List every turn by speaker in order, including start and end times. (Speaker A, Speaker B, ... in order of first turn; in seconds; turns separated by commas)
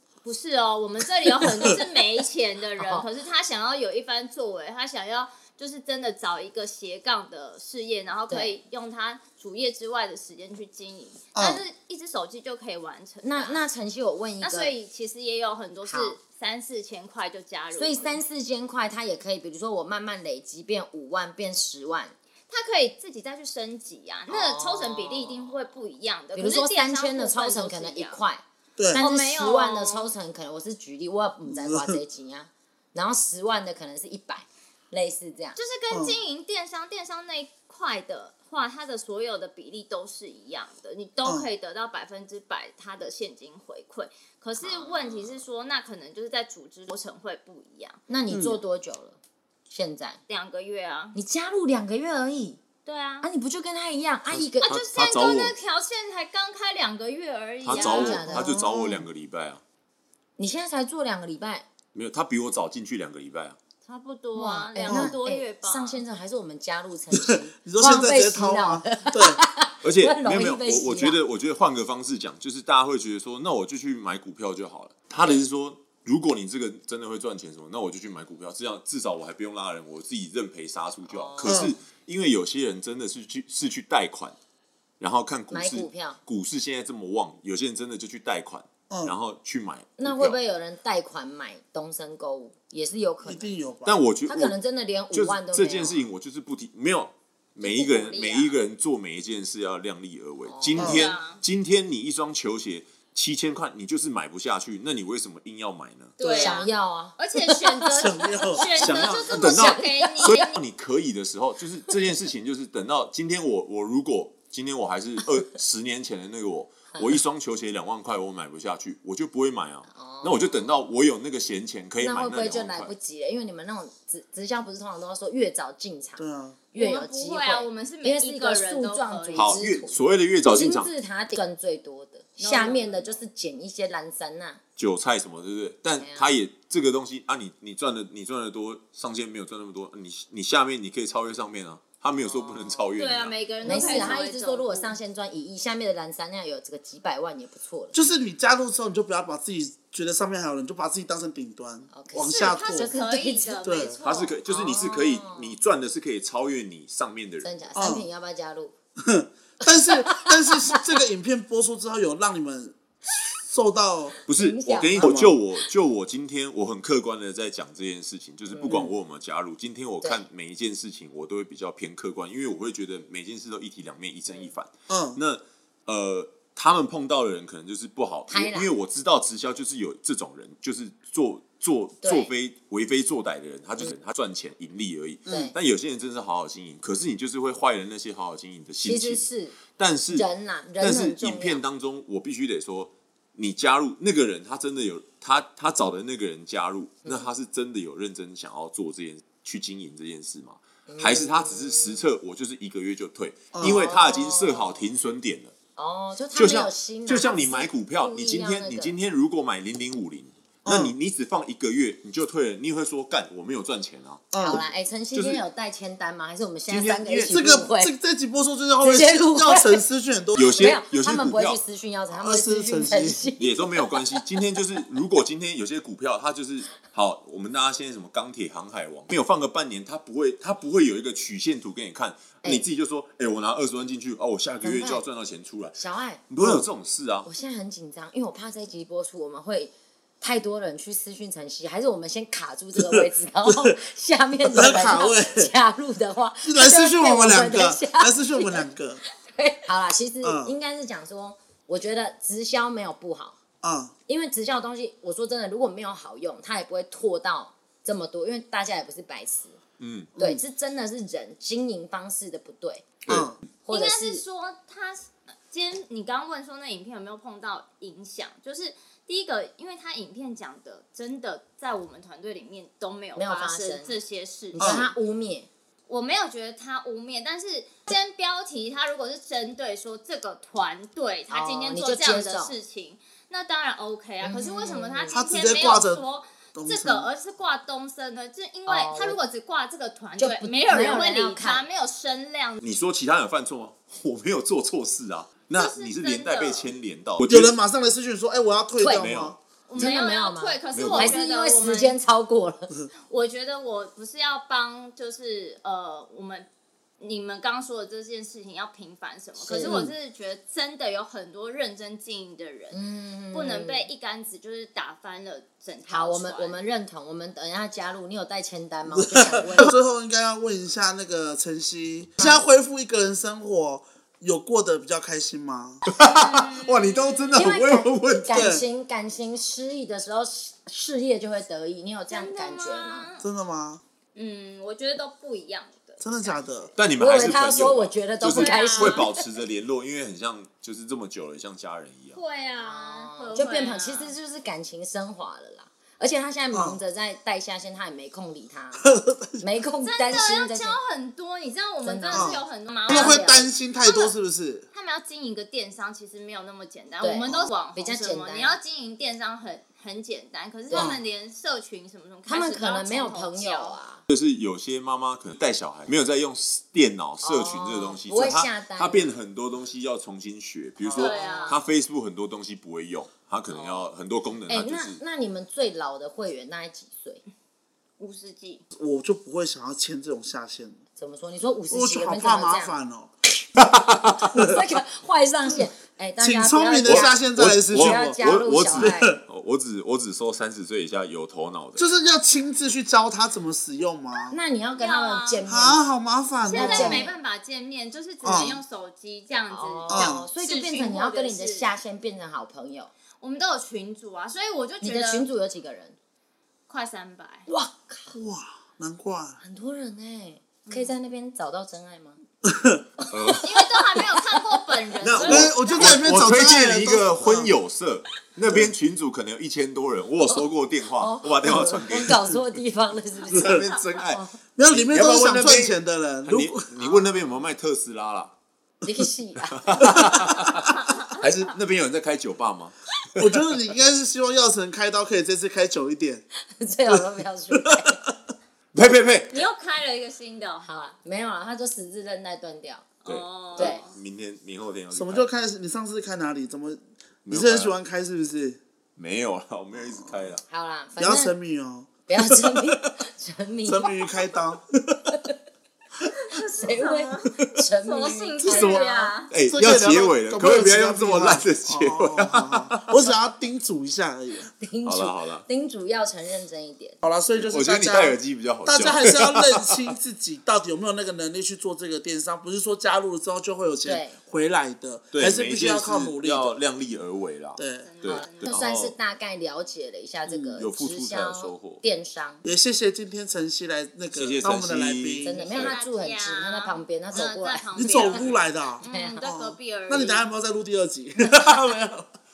Speaker A: 0.2-13.6, Speaker B: 1.5-1.8, Speaker B: 2.8-3.1, Speaker B: 8.3-8.6, Speaker C: 11.3-11.6, Speaker B: 13.2-14.7, Speaker A: 14.4-18.2, Speaker B: 15.8-16.2, Speaker B: 17.8-22.1, Speaker A: 22.5-28.2, Speaker B: 24.3-25.6, Speaker B: 26.4-35.6, Speaker C: 28.8-29.0, Speaker A: 29.0-30.1, Speaker C: 31.5-32.0, Speaker A: 35.5-48.0, Speaker C: 35.9-36.2, Speaker C: 41.2-41.5, Speaker B: 44.6-45.4, Speaker B: 48.1-50.2, Speaker C: 48.3-48.6, Speaker A: 50.3-51.2, Speaker B: 51.1-52.6, Speaker A: 52.9-53.3, Speaker B: 53.2-54.7, Speaker D: 54.3-55.5, Speaker A: 54.6-58.4, Speaker D: 57.6-59.6, Speaker B: 57.7-59.1, Speaker B: 60.4-61.7, Speaker D: 61.9-63.6, Speaker A: 63.9-66.0, Speaker B: 64.3-71.2, Speaker C: 64.9-65.2, Speaker C: 67.1-69.4, Speaker D: 69.8-84.4, Speaker B: 81.1-81.8, Speaker C: 81.4-81.7, Speaker D: 85.0-90.4, Speaker B: 85.5-86.2, Speaker B: 90.0-93.5, Speaker C: 93.2-94.0, Speaker D: 93.8-94.6, Speaker B: 94.3-96.1, Speaker D: 95.1-106.2, Speaker B: 97.6-98.5, Speaker B: 100.5-101.1, Speaker C: 100.8-101.1, Speaker A: 100.8-101.4, Speaker A: 106.2-110.6, Speaker C: 106.2-106.6, Speaker B: 106.3-110.4, Speaker C: 107.9-109.4, Speaker D: 108.8-122.9, Speaker B: 119.9-120.7, Speaker B: 122.0-134.6, Speaker C: 126.2-126.6, Speaker A: 126.8-129.7, Speaker D: 129.3-130.9, Speaker A: 132.4-133.2, Speaker D: 134.8-144.0, Speaker B: 136.0-136.3, Speaker B: 142.2-142.9, Speaker A: 143.0-144.9, Speaker B: 143.6-147.9, Speaker C: 143.7-144.0, Speaker C: 147.9-152.9, Speaker B: 151.9-154.0, Speaker A: 152.2-154.4, Speaker C: 153.6-154.0, Speaker D: 154.0-157.5, Speaker B: 154.5-155.6, Speaker B: 157.4-158.7, Speaker C: 157.8-158.1, Speaker C: 159.0-164.2, Speaker B: 159.7-160.8, Speaker D: 164.3-190.3, Speaker B: 164.3-165.3, Speaker C: 165.0-165.3, Speaker B: 168.5-168.9, Speaker C: 174.9-175.2, Speaker B: 178.3-178.7, Speaker B: 182.0-182.3, Speaker B: 185.3-185.6, Speaker B: 188.8-189.6, Speaker B: 190.1-191.6, Speaker D: 190.8-205.5, Speaker B: 197.1-197.3, Speaker B: 200.9-202.1, Speaker C: 203.5-203.8, Speaker B: 203.6-204.9, Speaker B: 205.8-208.9, Speaker D: 206.3-214.6, Speaker C: 210.7-210.9, Speaker C: 214.3-214.6, Speaker B: 214.4-217.9, Speaker D: 215.1-215.4, Speaker D: 216.7-217.6, Speaker C: 217.3-220.7, Speaker B: 218.8-219.9, Speaker D: 220.3-221.6, Speaker B: 220.5-224.2, Speaker C: 222.2-223.2, Speaker D: 223.4-237.3, Speaker B: 234.6-235.0, Speaker B: 235.8-236.2, Speaker C: 236.4-236.7, Speaker B: 237.2-253.4, Speaker C: 242.8-243.8, Speaker C: 244.5-245.5, Speaker C: 246.4-249.0, Speaker C: 250.2-250.5, Speaker C: 253.6-253.9, Speaker B: 254.1-259.6, Speaker D: 259.8-260.1, Speaker C: 260.2-260.4, Speaker B: 260.2-263.0, Speaker C: 263.1-263.4, Speaker B: 263.6-264.2, Speaker A: 263.7-274.9, Speaker B: 273.2-274.0, Speaker B: 274.5-275.5, Speaker C: 274.6-274.9, Speaker A: 275.9-292.6, Speaker B: 281.3-282.5, Speaker B: 284.2-285.1, Speaker C: 285.1-286.0, Speaker C: 286.6-287.1, Speaker B: 288.7-289.2, Speaker B: 290.2-291.6, Speaker D: 292.6-297.6, Speaker A: 295.6-296.7, Speaker C: 297.3-299.4, Speaker B: 298.8-299.1, Speaker D: 299.0-299.9, Speaker A: 299.7-302.0, Speaker B: 299.8-302.7, Speaker D: 300.7-301.2, Speaker A: 303.1-306.5, Speaker A: 307.0-312.8, Speaker B: 309.4-309.9, Speaker C: 309.6-309.9, Speaker B: 312.7-313.9, Speaker A: 313.3-316.6, Speaker B: 315.9-319.8, Speaker C: 318.9-325.8, Speaker D: 325.9-328.6, Speaker A: 326.0-327.6, Speaker B: 327.4-333.1, Speaker C: 328.3-328.6, Speaker A: 332.1-333.2, Speaker C: 333.2-333.8, Speaker A: 334.2-336.4, Speaker C: 336.0-336.7, Speaker D: 336.8-342.2, Speaker B: 337.0-339.2, Speaker A: 338.3-339.0, Speaker A: 342.1-344.1, Speaker B: 342.6-348.8, Speaker C: 346.5-346.8, Speaker C: 348.8-349.4, Speaker B: 349.4-350.8, Speaker A: 349.8-354.1, Speaker B: 351.8-353.5, Speaker C: 352.1-354.7, Speaker A: 354.7-363.8, Speaker B: 357.0-358.6, Speaker B: 360.7-361.0, Speaker C: 360.7-361.0, Speaker B: 362.3-364.0, Speaker D: 364.1-375.0, Speaker B: 367.2-369.2, Speaker B: 370.8-371.7, Speaker A: 370.9-371.6, Speaker B: 373.5-373.9, Speaker B: 374.5-377.2, Speaker A: 378.0-378.6, Speaker C: 378.7-380.8, Speaker B: 381.0-382.7, Speaker C: 381.7-383.1, Speaker D: 383.6-384.6, Speaker B: 384.3-389.1, Speaker C: 386.2-388.2, Speaker D: 386.8-391.9, Speaker C: 388.7-389.2, Speaker C: 391.8-394.4, Speaker B: 394.3-396.0, Speaker A: 394.8-395.4, Speaker C: 395.5-397.1, Speaker A: 396.5-401.7, Speaker B: 396.5-397.2, Speaker C: 398.2-398.6, Speaker B: 399.5-402.9, Speaker C: 399.9-400.3, Speaker A: 403.2-405.3, Speaker B: 404.8-406.0, Speaker A: 406.7-407.5, Speaker B: 407.5-408.1, Speaker C: 408.1-409.4, Speaker B: 409.4-412.2, Speaker A: 410.7-410.9, Speaker C: 412.5-412.8, Speaker B: 413.0-414.4, Speaker D: 413.1-413.5, Speaker A: 413.4-416.0, Speaker D: 415.0-422.4, Speaker C: 415.2-417.5, Speaker C: 418.5-418.7, Speaker B: 421.0-424.4, Speaker D: 423.3-428.3, Speaker C: 424.6-426.7, Speaker B: 426.8-427.1, Speaker B: 428.8-430.5, Speaker D: 429.4-433.4, Speaker A: 430.7-431.2, Speaker C: 433.2-436.2, Speaker B: 436.5-438.0, Speaker C: 436.9-437.9, Speaker D: 438.7-439.4, Speaker A: 439.3-440.7, Speaker B: 440.6-442.9, Speaker A: 443.0-444.0, Speaker D: 443.1-445.3, Speaker C: 444.9-448.6, Speaker D: 447.2-447.8, Speaker D: 449.0-450.4, Speaker C: 450.0-450.3, Speaker B: 450.5-451.3, Speaker C: 451.0-451.9, Speaker B: 452.1-454.1, Speaker D: 452.4-452.9, Speaker C: 453.7-455.1, Speaker B: 455.1-455.4, Speaker A: 456.1-459.3, Speaker B: 456.3-459.1, Speaker D: 458.4-462.9, Speaker C: 459.5-464.5, Speaker B: 464.6-467.0, Speaker D: 464.9-465.4, Speaker C: 467.0-476.6, Speaker D: 467.4-469.9, Speaker B: 473.9-474.2, Speaker D: 475.1-478.9, Speaker C: 477.6-477.9, Speaker A: 477.8-478.7, Speaker B: 478.1-482.4, Speaker D: 480.3-481.8, Speaker C: 482.4-485.4, Speaker D: 484.1-485.8, Speaker B: 485.2-488.3, Speaker A: 485.4-490.3, Speaker C: 487.8-492.1, Speaker B: 488.8-489.2